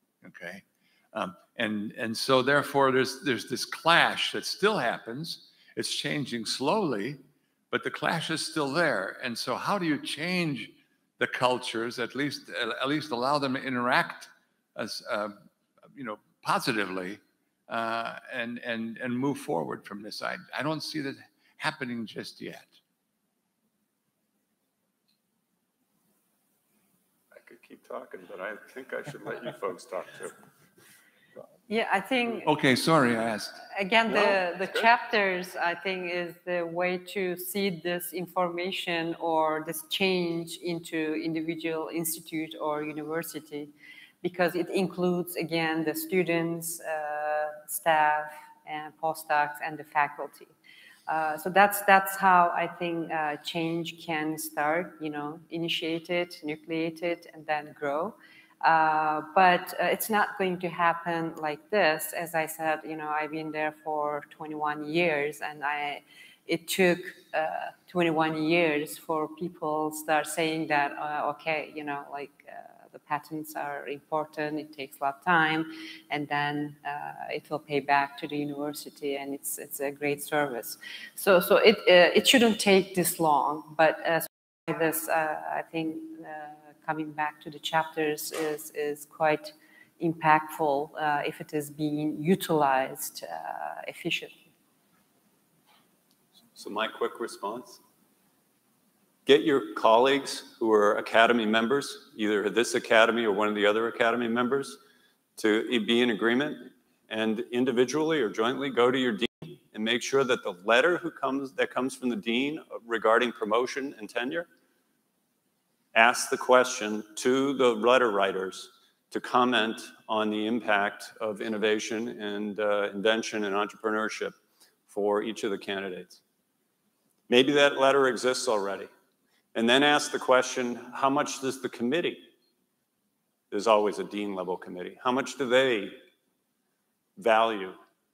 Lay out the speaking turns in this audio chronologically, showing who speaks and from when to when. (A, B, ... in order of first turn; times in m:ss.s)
0:00.2-0:15.4 A
0:15.9-0:22.8 A
0:27.3-0:30.4 B
0:31.7-0:32.5 C
0:32.4-0:33.6 A
0:33.7-0:43.7 C
0:34.1-0:34.9 B
0:44.2-0:50.5 C
0:51.1-1:34.4 C
1:36.6-1:37.8 B
1:39.3-1:44.8 B
1:45.4-1:54.5 B
1:55.9-2:04.4 B
2:04.9-2:06.2 B
2:07.3-2:08.9 B
2:09.6-2:12.2 B
2:13.5-2:16.0 B
2:17.2-2:17.8 B